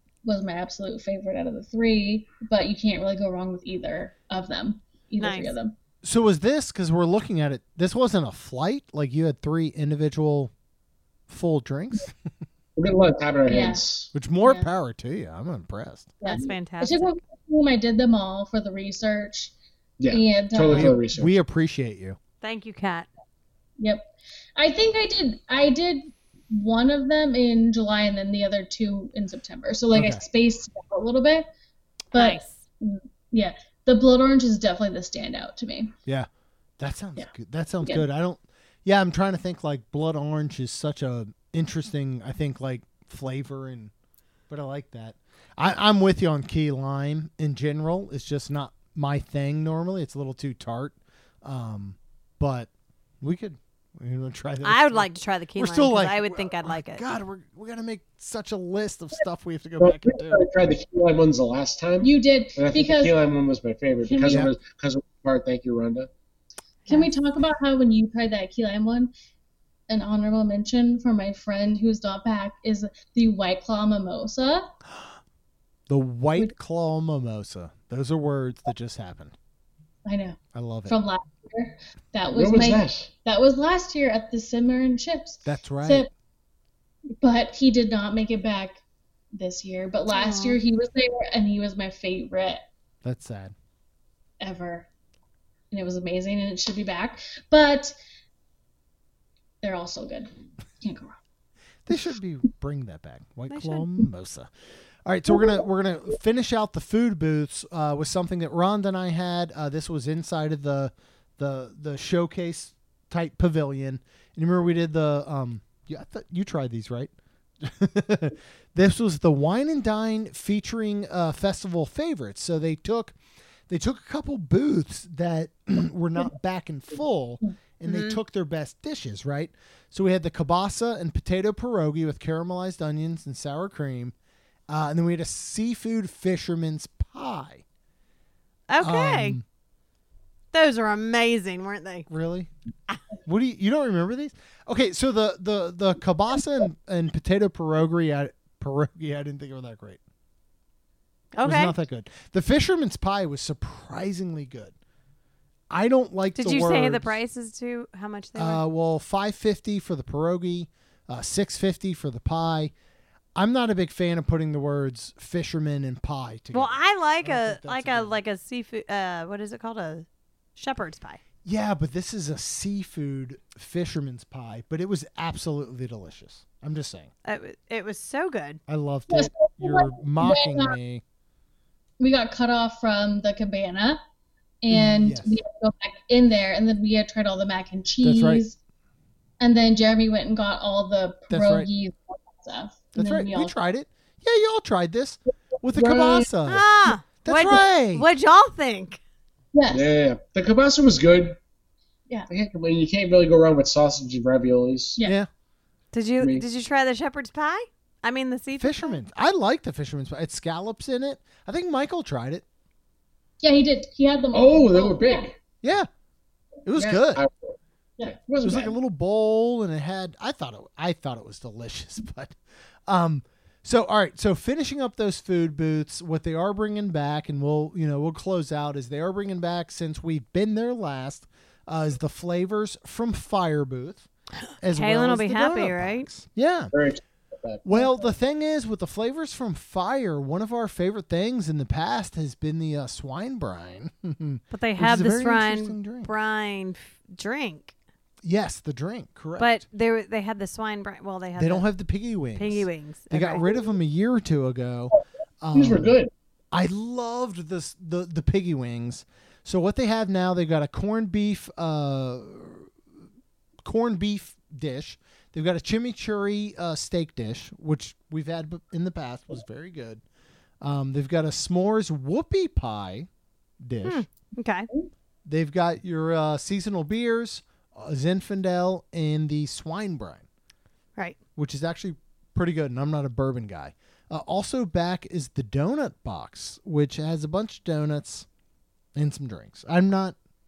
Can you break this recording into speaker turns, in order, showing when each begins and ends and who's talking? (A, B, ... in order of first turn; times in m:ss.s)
0:00.2-0:05.7 A
0:05.2-0:05.6 B
0:06.0-0:10.5 C
0:11.3-0:12.1 C
0:12.8-0:14.1 D
0:13.5-0:13.8 A
0:14.1-0:16.2 C
0:14.4-0:14.7 A
0:16.2-0:19.5 A
0:16.2-0:17.1 B
0:20.0-0:21.3 D
0:20.1-0:21.0 A
0:20.7-0:22.2 C
0:22.4-0:23.1 B
0:23.8-0:31.4 A
0:29.9-0:30.2 C
0:32.1-0:35.9 A
0:32.1-0:32.6 B
0:36.8-0:43.9 C
0:44.5-0:52.7 C
0:53.2-1:00.4 C
0:54.6-0:57.0 B
0:59.8-1:06.1 D
1:02.0-1:03.1 A
1:04.0-1:04.5 A
1:06.9-1:09.1 A
1:09.9-1:14.7 A
1:15.9-1:19.3 C
1:20.1-1:26.1 A
1:20.5-1:20.9 C
1:22.3-1:23.1 D
1:25.4-1:26.1 C
1:27.2-1:28.8 A
1:29.3-1:32.6 A
1:30.1-1:30.6 B
1:33.0-1:33.5 C
1:34.4-1:34.9 A
1:35.7-1:37.9 A
1:39.6-1:41.2 A
1:41.9-1:44.5 C
1:43.5-1:43.8 B
1:45.1-1:57.1 C
1:57.6-2:03.2 C
2:03.7-2:14.1 C
2:07.8-2:08.2 B
2:14.7-2:17.6 C
2:18.7-2:19.4 B
2:18.8-2:19.4 C
2:20.5-2:22.1 B
2:22.1-2:22.5 C
2:23.2-2:30.0 C
2:31.3-2:31.8 B
2:31.4-2:34.7 C
2:35.7-2:37.2 C
2:36.4-2:38.6 B
2:38.4-2:42.7 C
2:43.4-2:48.2 C
2:46.5-2:50.0 B
2:50.6-2:51.2 B
2:51.4-2:57.1 C
2:57.2-2:58.6 B
2:58.7-3:01.0 C
2:59.1-3:00.8 A
3:02.0-3:04.0 A
3:04.6-3:08.6 A
3:04.7-3:05.4 C
3:08.0-3:08.4 C
3:09.4-3:13.6 A
3:11.3-3:11.7 C
3:12.9-3:16.6 C
3:15.7-3:16.3 A
3:16.5-3:19.0 B
3:17.2-3:18.1 C
3:19.5-3:19.9 A
3:19.7-3:21.4 D
3:22.3-3:25.0 D
3:25.0-3:25.3 C
3:25.9-3:29.0 B
3:26.2-3:26.4 D
3:28.6-3:32.4 C
3:33.4-3:35.2 A
3:34.3-3:35.4 D
3:35.6-3:35.9 C
3:36.7-3:37.2 C
3:36.8-3:38.7 D
3:38.4-3:54.1 C
3:54.6-3:56.7 C
3:54.7-3:56.1 B
3:56.7-3:57.6 D
3:57.6-4:06.1 C
4:04.5-4:07.7 B
4:08.2-4:09.6 C
4:09.4-4:11.6 B
4:11.4-4:16.0 C
4:12.4-4:13.5 B
4:15.5-4:16.1 D
4:16.5-4:22.7 C
4:23.6-4:30.0 C
4:30.6-4:33.1 C
4:33.6-4:34.1 C
4:33.8-4:34.7 B
4:35.3-4:40.2 C
4:41.4-4:48.3 C
4:49.0-4:50.2 C